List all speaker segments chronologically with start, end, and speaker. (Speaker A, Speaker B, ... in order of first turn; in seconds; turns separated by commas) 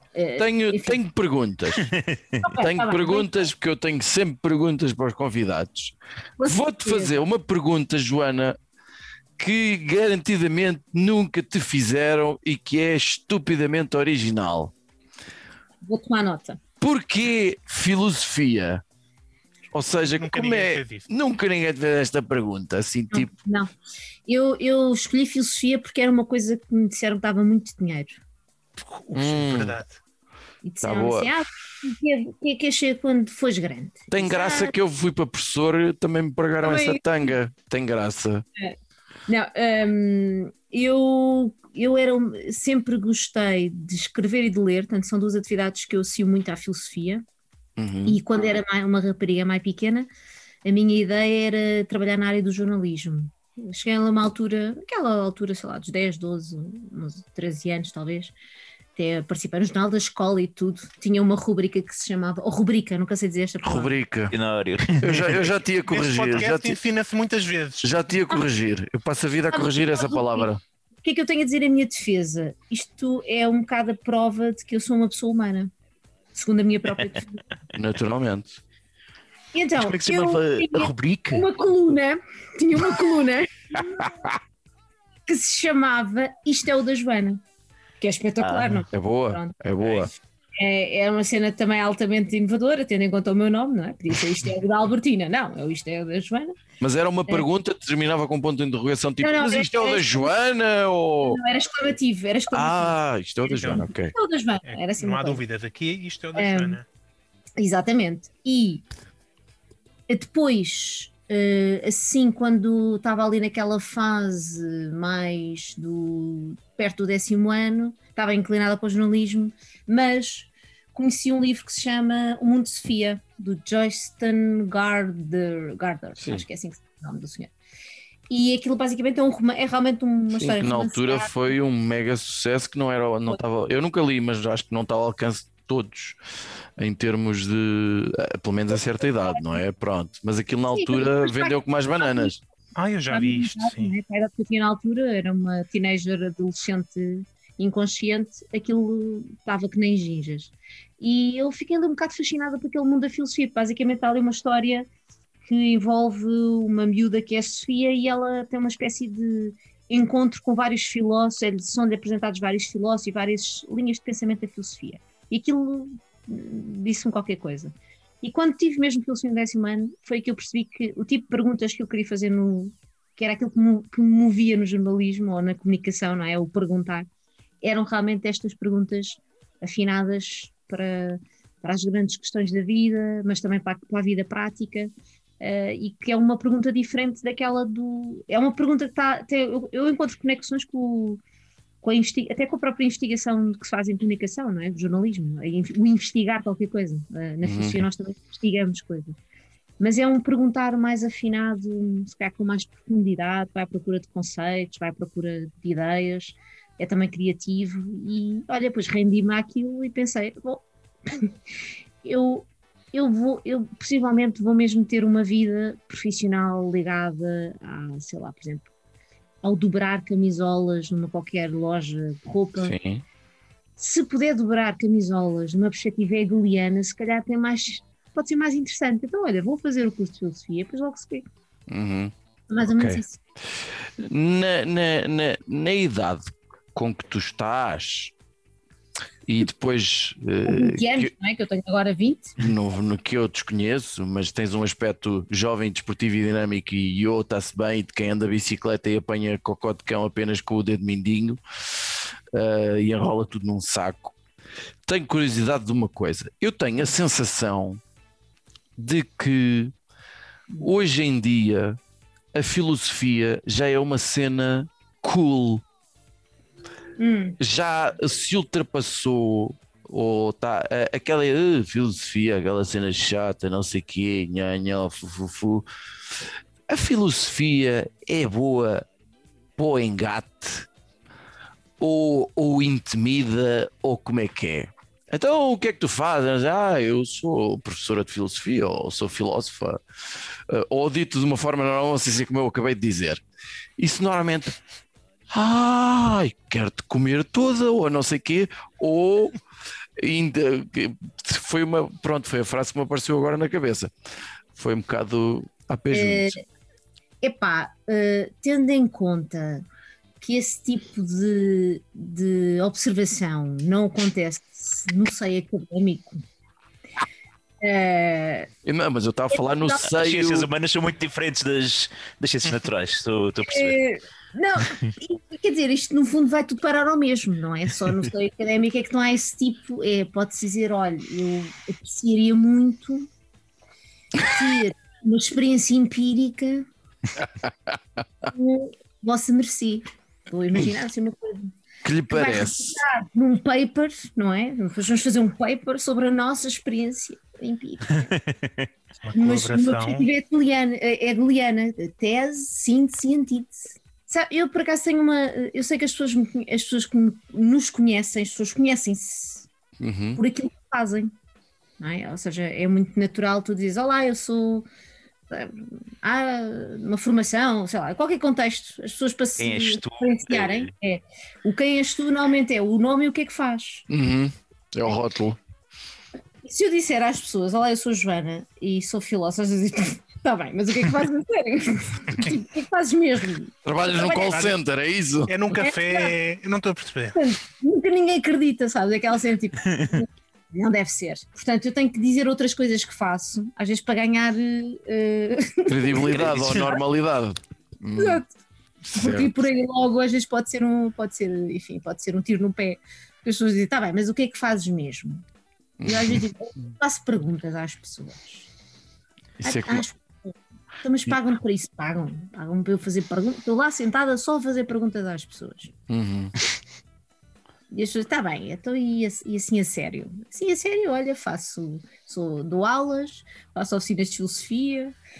Speaker A: 0.1-1.0, Speaker B: 0.4-1.9, Speaker C: 1.8-2.2, Speaker A: 2.4-3.5, Speaker B: 2.5-8.6, Speaker A: 6.4-7.2, Speaker B: 9.4-14.7, Speaker A: 15.8-16.6, Speaker B: 16.8-18.8, Speaker B: 19.7-23.3, Speaker D: 20.1-21.1, Speaker A: 23.1-23.7, Speaker A: 24.3-28.2, Speaker D: 28.8-29.9, Speaker B: 29.1-29.8, Speaker A: 30.6-34.7, Speaker B: 30.8-31.3, Speaker B: 34.1-38.4, Speaker A: 36.6-37.0, Speaker A: 39.3-47.2, Speaker B: 47.8-48.2, Speaker A: 48.0-50.1, Speaker A: 50.6-58.3, Speaker A: 59.0-64.0, Speaker B: 63.6-64.3, Speaker C: 64.3-65.5, Speaker B: 65.0-66.8, Speaker D: 65.9-68.0, Speaker B: 67.8-70.6, Speaker A: 69.5-70.5, Speaker A: 71.0-75.7, Speaker A: 76.3-77.4, Speaker B: 77.7-78.6, Speaker A: 79.5-84.1, Speaker C: 79.8-81.5, Speaker B: 83.9-84.3, Speaker A: 85.3-87.4, Speaker A: 88.0-89.5, Speaker C: 88.4-88.8, Speaker B: 88.9-90.1, Speaker A: 90.6-96.6, Speaker B: 96.8-101.4, Speaker A: 99.2-100.3, Speaker A: 101.2-105.4, Speaker B: 102.5-104.1, Speaker D: 103.6-103.9, Speaker D: 104.6-106.8, Speaker A: 106.3-106.8, Speaker A: 107.6-108.8, Speaker A: 110.1-127.5, Speaker B: 126.2-126.4, Speaker A: 128.3-131.5, Speaker B: 130.4-136.2, Speaker B: 136.8-142.4, Speaker A: 138.8-139.6, Speaker A: 140.7-142.3, Speaker D: 142.7-143.9, Speaker A: 143.1-154.9, Speaker A: 155.5-177.1, Speaker A: 177.6-191.2, Speaker A: 191.8-199.2, Speaker B: 197.4-197.8, Speaker A: 199.8-211.3, Speaker A: 212.0-218.7, Speaker A: 219.4-222.7, Speaker B: 222.6-223.0, Speaker A: 223.8-231.2, Speaker B: 231.7-232.1, Speaker A: 232.5-233.2, Speaker B: 232.7-233.0, Speaker B: 233.5-238.1, Speaker B: 239.2-241.1, Speaker A: 240.4-242.3, Speaker B: 242.4-254.1, Speaker B: 254.8-257.8, Speaker B: 258.8-259.7, Speaker B: 260.6-261.8, Speaker B: 262.3-265.6, Speaker A: 267.0-267.4, Speaker B: 267.4-278.8, Speaker B: 279.6-280.7, Speaker B: 281.8-289.8, Speaker B: 290.5-293.2, Speaker B: 293.8-294.6, Speaker B: 295.3-299.4, Speaker B: 300.0-303.9, Speaker B: 304.5-306.4, Speaker A: 305.9-306.4, Speaker A: 307.2-309.6, Speaker A: 310.2-316.2, Speaker A: 317.6-318.5, Speaker B: 318.6-320.5, Speaker A: 319.3-319.9, Speaker C: 319.8-323.8, Speaker A: 323.5-333.1, Speaker A: 334.2-336.7, Speaker B: 337.2-337.8, Speaker A: 338.2-341.5, Speaker B: 341.8-342.8, Speaker A: 342.1-348.0, Speaker C: 347.9-348.7, Speaker D: 349.0-350.1, Speaker A: 349.1-359.5, Speaker B: 359.8-360.2, Speaker A: 360.1-361.1, Speaker A: 361.8-364.7, Speaker A: 365.3-373.9, Speaker C: 369.4-370.7, Speaker B: 373.9-375.4, Speaker A: 376.4-384.4, Speaker B: 383.6-385.5, Speaker D: 384.1-384.6, Speaker D: 385.3-387.2, Speaker A: 385.6-386.1, Speaker A: 387.1-396.8, Speaker C: 389.6-389.9, Speaker B: 395.7-398.2, Speaker C: 396.0-396.7, Speaker A: 398.0-398.3, Speaker B: 398.8-399.3, Speaker A: 398.9-405.2, Speaker B: 405.8-406.2, Speaker A: 405.8-408.5, Speaker B: 409.4-409.8, Speaker A: 409.4-415.7, Speaker B: 415.9-416.3, Speaker A: 417.7-424.9